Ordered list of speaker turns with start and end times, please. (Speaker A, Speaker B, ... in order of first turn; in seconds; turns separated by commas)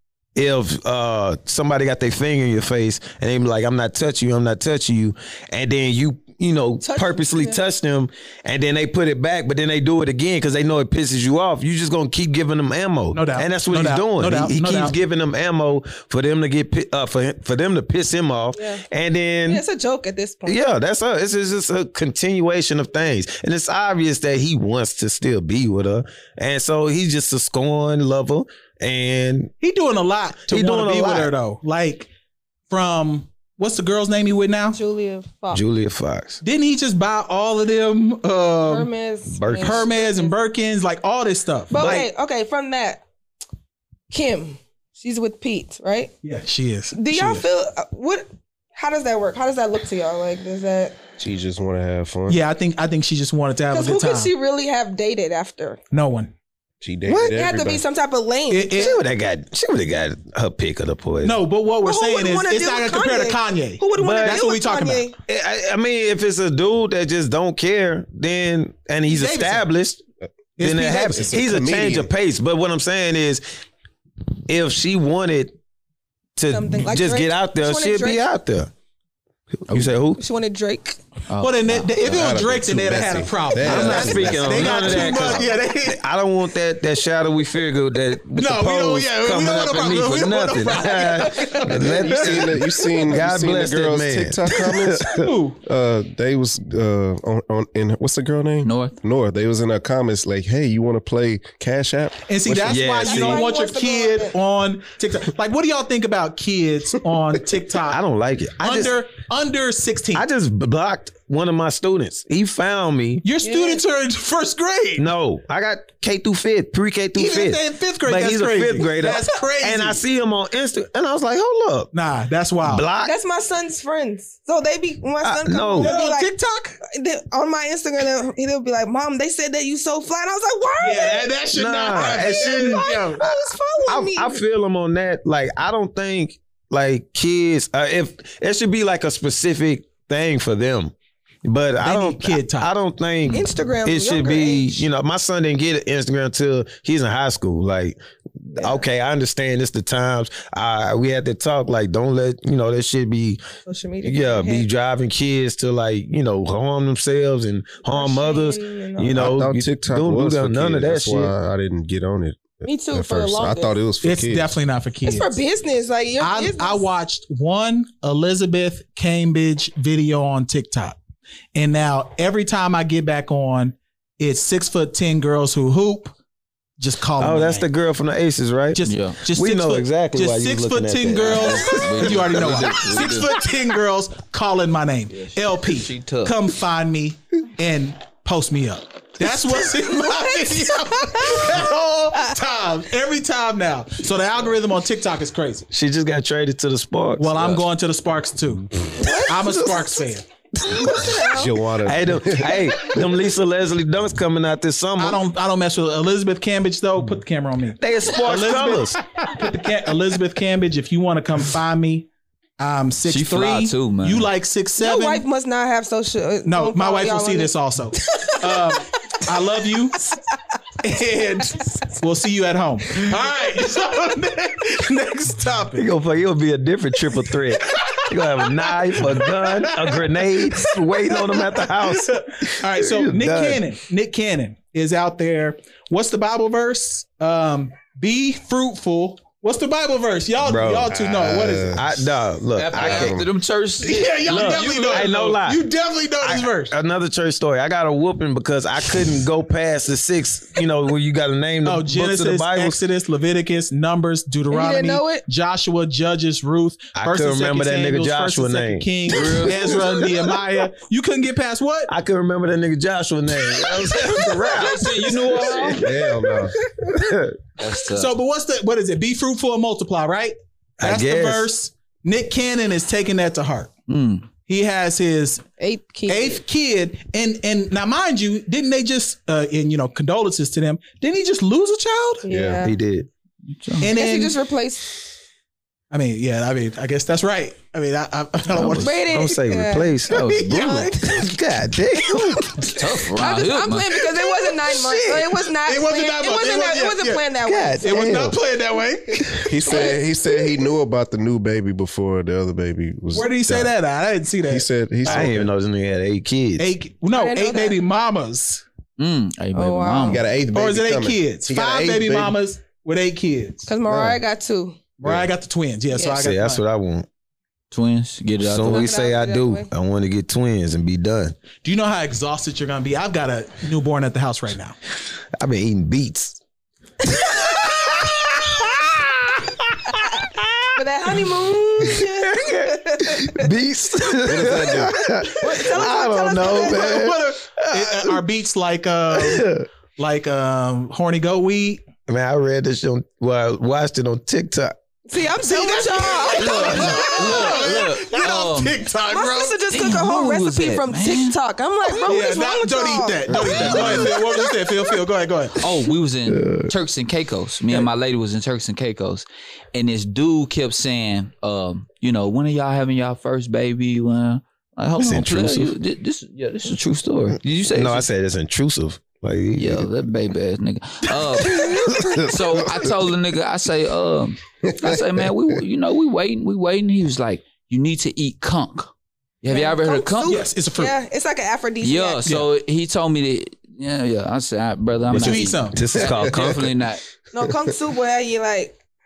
Speaker A: 0.3-19.6, Speaker B: 6.8-7.6, Speaker C: 13.1-14.9, Speaker B: 18.5-18.8, Speaker B: 19.5-20.6, Speaker A: 20.4-29.5, Speaker C: 29.6-32.1, Speaker A: 30.5-31.3, Speaker C: 32.7-34.8, Speaker B: 34.7-35.6, Speaker A: 35.5-36.4, Speaker C: 36.4-38.9, Speaker B: 38.6-40.4, Speaker A: 39.3-39.9, Speaker C: 39.6-42.0, Speaker B: 41.7-43.0, Speaker A: 41.8-42.1, Speaker B: 44.1-46.1, Speaker C: 46.2-47.4, Speaker B: 46.9-51.0, Speaker D: 51.2-52.4, Speaker C: 52.3-54.3, Speaker B: 53.7-55.8, Speaker C: 55.9-56.3, Speaker D: 56.8-57.8, Speaker B: 57.1-59.0, Speaker C: 58.5-58.9, Speaker A: 58.8-61.4, Speaker C: 61.2-65.1, Speaker B: 61.8-65.1, Speaker A: 64.0-64.4, Speaker A: 65.3-70.0, Speaker C: 69.1-69.6, Speaker C: 70.6-71.4, Speaker A: 70.6-73.4, Speaker D: 71.1-72.1, Speaker A: 74.5-75.5, Speaker A: 76.3-78.7, Speaker B: 76.5-78.2, Speaker A: 79.7-80.2, Speaker B: 80.2-81.0, Speaker E: 81.3-81.9, Speaker C: 81.4-86.0, Speaker D: 82.0-85.2, Speaker A: 83.6-95.3, Speaker B: 83.7-84.1, Speaker C: 88.3-92.5, Speaker D: 91.6-102.8, Speaker C: 95.1-95.6, Speaker E: 98.6-99.0, Speaker C: 102.3-108.0, Speaker A: 102.6-103.5, Speaker B: 103.0-104.3, Speaker A: 107.9-108.9, Speaker C: 108.6-110.2, Speaker A: 110.1-113.2, Speaker C: 113.2-115.1, Speaker B: 113.4-113.8, Speaker A: 115.0-121.9, Speaker C: 117.2-120.0, Speaker C: 121.9-122.8, Speaker A: 122.6-123.1, Speaker B: 123.0-126.3, Speaker A: 125.2-125.9, Speaker C: 125.8-126.8, Speaker B: 126.8-131.3, Speaker C: 130.8-133.2, Speaker A: 131.5-140.9, Speaker B: 131.8-134.4, Speaker A: 141.4-153.4, Speaker C: 141.8-142.7, Speaker B: 143.3-144.9, Speaker B: 148.6-148.8, Speaker B: 153.7-154.7, Speaker A: 154.0-161.3, Speaker B: 157.9-159.3, Speaker D: 159.1-164.5, Speaker B: 162.6-163.8, Speaker C: 164.0-165.4, Speaker B: 165.0-166.8, Speaker C: 166.2-171.0, Speaker C: 171.5-176.1, Speaker C: 176.8-177.7, Speaker A: 177.2-182.7, Speaker C: 178.7-195.7, Speaker E: 178.8-179.2, Speaker E: 181.1-183.3, Speaker E: 185.1-186.3, Speaker B: 190.1-191.4, Speaker A: 195.7-197.6, Speaker C: 197.2-198.7, Speaker B: 199.0-199.8, Speaker A: 199.1-199.5, Speaker C: 199.2-200.2, Speaker B: 200.6-201.6, Speaker A: 200.6-201.1, Speaker D: 201.1-202.6, Speaker A: 201.8-205.2, Speaker C: 205.0-212.1, Speaker A: 207.8-209.0, Speaker C: 212.6-215.2, Speaker E: 213.1-214.3, Speaker B: 214.8-217.5, Speaker C: 216.4-220.0, Speaker C: 220.8-225.9, Speaker A: 225.7-233.6, Speaker C: 228.7-241.8, Speaker A: 240.4-241.0, Speaker D: 240.9-241.8, Speaker A: 241.7-243.2, Speaker E: 242.6-245.3, Speaker D: 242.7-243.3, Speaker C: 243.8-246.7, Speaker A: 244.3-245.6, Speaker A: 246.2-252.8, Speaker C: 251.6-261.9, Speaker B: 254.5-255.2, Speaker A: 256.9-260.4, Speaker E: 259.1-259.8, Speaker A: 261.9-267.4, Speaker C: 264.1-264.5, Speaker E: 264.5-265.9, Speaker D: 265.8-266.6, Speaker E: 267.6-268.1, Speaker C: 267.9-273.7, Speaker A: 270.8-271.5, Speaker E: 273.9-274.3, Speaker C: 274.3-275.4, Speaker B: 275.6-276.4, Speaker C: 276.1-282.2, Speaker B: 282.2-282.7, Speaker D: 282.3-282.6, Speaker A: 282.6-283.1, Speaker E: 283.5-283.9, Speaker C: 283.8-284.4, Speaker B: 283.9-284.9, Speaker C: 285.9-289.0, Speaker E: 288.5-288.9, Speaker B: 288.7-290.0, Speaker A: 288.9-292.7, Speaker E: 290.1-290.9, Speaker C: 290.3-290.8, Speaker E: 292.7-293.9, Speaker B: 293.1-298.1, Speaker A: 294.7-295.3, Speaker C: 295.6-297.2, Speaker A: 297.4-298.4, Speaker C: 297.8-299.9, Speaker D: 299.4-303.7, Speaker B: 299.6-300.5, Speaker C: 303.1-305.3, Speaker D: 304.4-305.5, Speaker A: 305.1-306.6, Speaker C: 306.6-308.6, Speaker B: 307.1-307.8, Speaker E: 309.0-310.2, Speaker B: 309.5-310.2, Speaker D: 310.1-312.4, Speaker C: 310.5-313.7, Speaker B: 313.6-314.8, Speaker D: 313.9-314.2, Speaker C: 315.0-316.6, Speaker B: 315.9-316.2, Speaker A: 316.1-317.1, Speaker E: 317.7-318.9, Speaker A: 318.4-321.3, Speaker B: 318.6-319.7, Speaker C: 321.6-324.8, Speaker A: 325.4-326.4, Speaker A: 327.1-330.7, Speaker B: 330.8-333.5, Speaker A: 331.9-338.2, Speaker D: 334.2-335.1, Speaker B: 334.9-336.9, Speaker C: 336.3-341.8, Speaker A: 339.1-339.6, Speaker A: 342.1-344.8, Speaker B: 345.1-347.3, Speaker C: 345.4-349.6, Speaker E: 346.4-348.8, Speaker A: 346.6-347.4, Speaker B: 349.1-354.7, Speaker E: 349.7-351.4, Speaker C: 352.0-355.6, Speaker E: 353.4-354.1, Speaker E: 355.6-368.1, Speaker A: 356.4-356.7, Speaker A: 365.0-365.7, Speaker A: 367.7-369.9, Speaker E: 369.6-378.9, Speaker A: 371.4-372.4, Speaker E: 379.4-380.4, Speaker B: 379.5-382.3, Speaker C: 380.2-380.9, Speaker E: 381.8-387.0, Speaker A: 385.1-386.7, Speaker C: 385.1-385.9, Speaker D: 386.0-386.4, Speaker B: 387.3-388.8